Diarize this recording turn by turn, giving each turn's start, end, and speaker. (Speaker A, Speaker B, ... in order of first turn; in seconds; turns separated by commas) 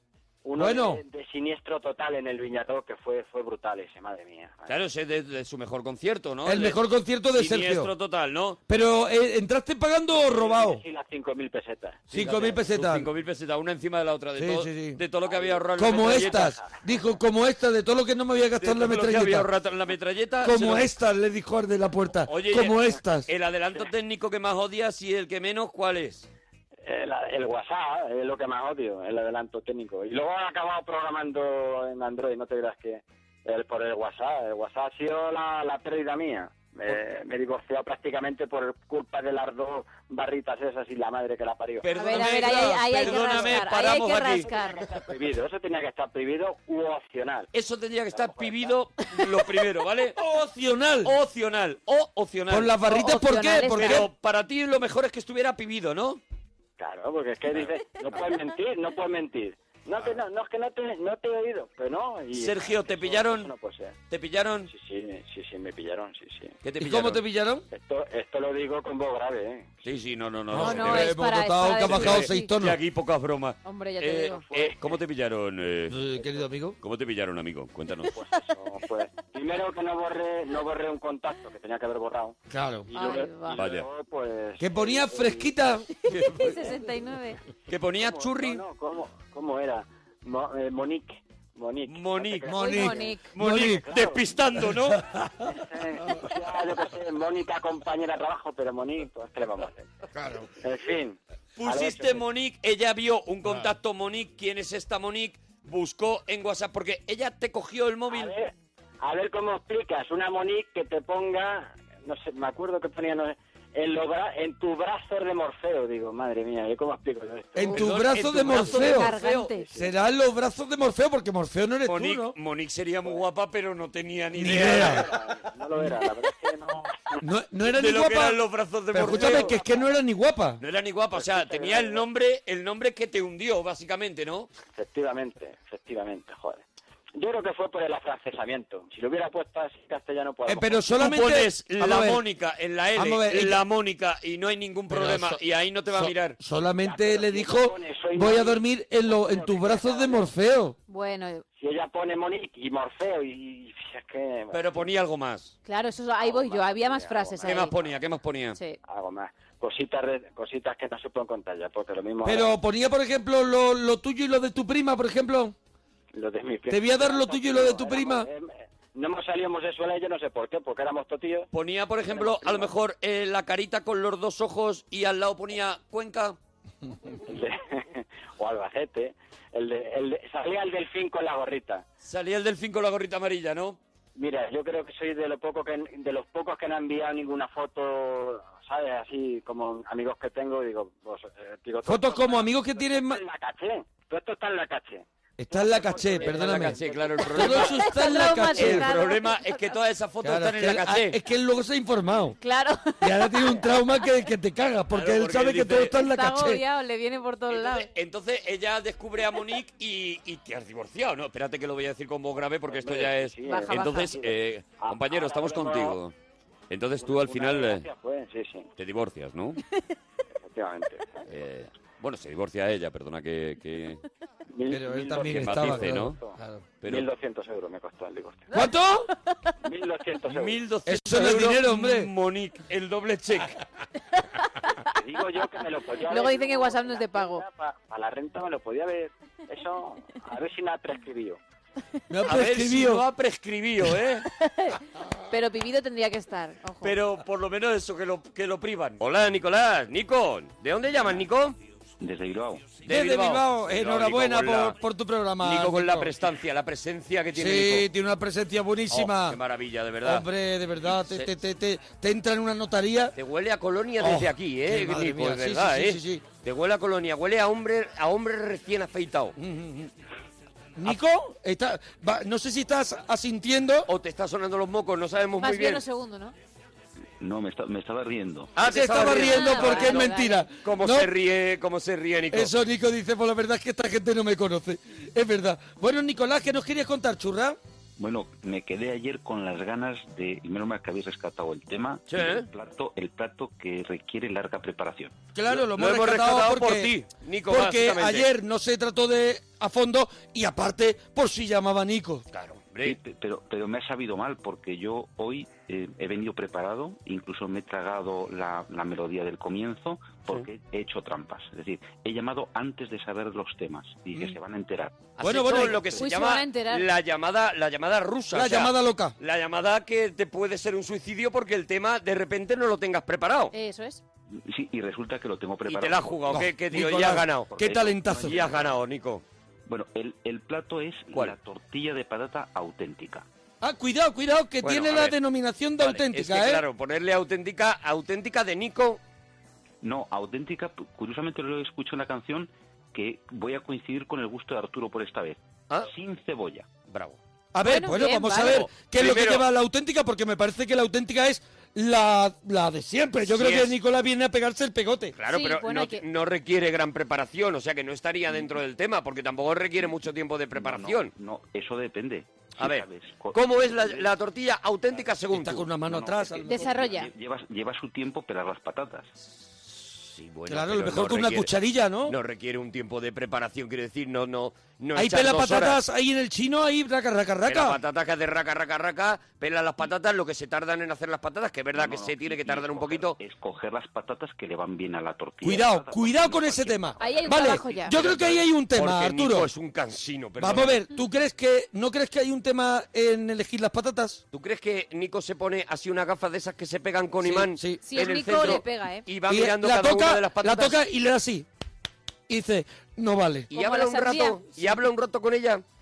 Speaker A: 0.4-4.8, Speaker B: 0.6-1.0, Speaker C: 4.7-6.8, Speaker B: 6.5-7.9, Speaker C: 7.3-8.6, Speaker B: 8.7-10.8, Speaker A: 10.1-12.0, Speaker B: 12.1-13.1, Speaker C: 12.1-16.6, Speaker B: 14.3-15.0, Speaker A: 15.2-16.9, Speaker B: 15.8-19.5, Speaker C: 18.6-20.9, Speaker B: 20.4-23.3, Speaker C: 22.2-26.3, Speaker A: 26.8-41.9, Speaker C: 41.8-44.5, Speaker D: 42.0-44.8, Speaker B: 42.1-43.7, Speaker A: 44.2-47.5, Speaker C: 47.5-50.2, Speaker A: 48.1-48.8, Speaker B: 50.2-51.1, Speaker C: 51.0-52.7, Speaker B: 52.5-54.1, Speaker D: 52.9-54.1, Speaker C: 53.7-56.2, Speaker A: 56.8-64.0, Speaker C: 57.5-58.3, Speaker C: 62.3-63.5, Speaker C: 64.1-64.7, Speaker A: 64.7-66.6, Speaker C: 66.6-67.2, Speaker B: 66.8-67.6, Speaker A: 67.7-69.8, Speaker C: 69.8-76.0, Speaker B: 70.5-72.8, Speaker D: 70.6-72.5, Speaker D: 73.6-74.4, Speaker A: 74.5-75.0, Speaker B: 75.9-76.8, Speaker C: 76.8-78.2, Speaker A: 78.1-82.4, Speaker B: 82.5-82.9, Speaker A: 82.9-85.5, Speaker D: 82.9-83.6, Speaker C: 83.5-83.9, Speaker B: 84.6-85.9, Speaker C: 86.1-86.5, Speaker D: 86.3-87.4, Speaker C: 87.7-88.6, Speaker A: 87.9-93.2, Speaker C: 91.9-92.8, Speaker B: 92.5-93.9, Speaker D: 92.5-93.3, Speaker C: 93.3-95.1, Speaker A: 93.8-94.2, Speaker A: 95.4-99.9, Speaker A: 100.6-102.2, Speaker C: 101.6-108.3, Speaker A: 108.1-117.9, Speaker B: 117.5-119.1, Speaker C: 117.7-119.5, Speaker A: 118.4-119.0, Speaker D: 118.5-119.7, Speaker A: 119.6-119.9, Speaker B: 119.8-122.3, Speaker C: 121.9-125.2, Speaker B: 124.3-125.1, Speaker A: 124.5-127.2, Speaker B: 127.2-128.4, Speaker C: 127.7-129.6, Speaker B: 128.9-130.6, Speaker A: 129.0-129.9, Speaker C: 130.6-134.5, Speaker A: 131.1-132.0, Speaker A: 134.7-136.6, Speaker A: 137.2-141.0, Speaker B: 140.5-142.2, Speaker C: 140.9-146.4, Speaker B: 143.0-143.6, Speaker B: 144.9-145.4, Speaker B: 145.9-150.8, Speaker A: 146.8-150.3, Speaker D: 150.9-151.4, Speaker A: 151.6-154.8, Speaker C: 154.5-155.5, Speaker D: 155.7-157.8, Speaker A: 156.2-157.8, Speaker C: 157.4-158.6, Speaker A: 158.8-162.6, Speaker B: 162.2-165.5, Speaker A: 166.1-171.5, Speaker B: 166.7-168.3, Speaker C: 171.5-176.4, Speaker A: 172.1-172.7, Speaker A: 177.3-181.8, Speaker C: 182.0-183.8, Speaker A: 184.2-197.8, Speaker B: 191.8-193.2, Speaker B: 195.4-196.8, Speaker C: 196.2-201.2, Speaker B: 197.3-198.9, Speaker D: 197.3-199.7, Speaker B: 200.2-202.4, Speaker D: 202.4-203.7, Speaker B: 203.0-206.6, Speaker C: 204.9-206.0, Speaker D: 206.0-207.9, Speaker C: 207.5-216.1, Speaker A: 212.7-216.0, Speaker D: 213.5-214.2, Speaker C: 216.7-217.8, Speaker A: 217.0-218.7, Speaker C: 218.8-219.6, Speaker A: 220.4-221.2, Speaker C: 221.3-224.0, Speaker A: 224.5-228.5, Speaker B: 224.7-226.7, Speaker C: 225.2-226.2, Speaker B: 228.5-229.1, Speaker A: 229.6-230.6, Speaker C: 230.3-233.6, Speaker B: 230.9-232.1, Speaker A: 235.0-241.4, Speaker D: 236.1-237.4, Speaker B: 242.1-243.0, Speaker C: 242.2-244.3, Speaker D: 244.4-247.0, Speaker C: 246.8-251.6, Speaker E: 252.0-252.7, Speaker C: 252.8-254.8, Speaker B: 252.9-256.1, Speaker C: 255.4-257.9, Speaker B: 257.4-259.4, Speaker C: 258.9-260.3, Speaker B: 260.0-263.1, Speaker C: 260.8-261.3, Speaker C: 263.2-269.4, Speaker B: 264.0-266.3, Speaker B: 269.4-269.9, Speaker B: 270.8-273.9, Speaker C: 273.9-275.8, Speaker D: 275.4-276.3, Speaker E: 277.2-278.6, Speaker C: 278.6-282.6, Speaker B: 278.6-281.1, Speaker D: 279.0-280.5, Speaker B: 282.3-287.6, Speaker E: 288.0-295.2, Speaker C: 292.1-292.5, Speaker B: 295.4-296.9, Speaker C: 295.5-298.3, Speaker B: 297.5-302.2, Speaker C: 302.3-303.0, Speaker E: 302.8-315.0, Speaker C: 315.2-323.5, Speaker B: 315.2-316.0, Speaker D: 315.9-316.9, Speaker B: 318.3-319.1, Speaker D: 323.5-324.0, Speaker E: 324.3-326.4, Speaker C: 325.7-327.5, Speaker B: 326.3-328.4, Speaker E: 327.6-328.8, Speaker C: 328.2-329.2, Speaker E: 329.7-333.2, Speaker B: 333.6-336.6, Speaker C: 334.6-335.1, Speaker C: 335.8-339.0, Speaker E: 339.8-346.7, Speaker C: 346.9-347.2, Speaker B: 347.5-355.1, Speaker D: 347.6-348.7, Speaker C: 348.4-349.4, Speaker C: 353.3-353.8, Speaker C: 355.2-361.1, Speaker D: 355.3-356.0, Speaker E: 360.6-364.1, Speaker C: 362.6-365.8, Speaker B: 365.3-366.8, Speaker E: 365.9-369.1, Speaker D: 366.5-367.1, Speaker C: 369.8-371.5, Speaker B: 370.5-372.2, Speaker C: 372.1-375.8, Speaker B: 375.0-377.8, Speaker C: 377.5-383.2, Speaker E: 381.8-387.6, Speaker B: 385.4-389.5, Speaker D: 387.0-388.0, Speaker C: 387.9-390.8, Speaker B: 390.4-394.2, Speaker C: 394.3-400.8, Speaker B: 397.2-397.8, Speaker D: 397.9-399.1, Speaker B: 399.3-401.5, Speaker B: 402.3-403.5, Speaker C: 403.5-405.6, Speaker D: 403.5-404.6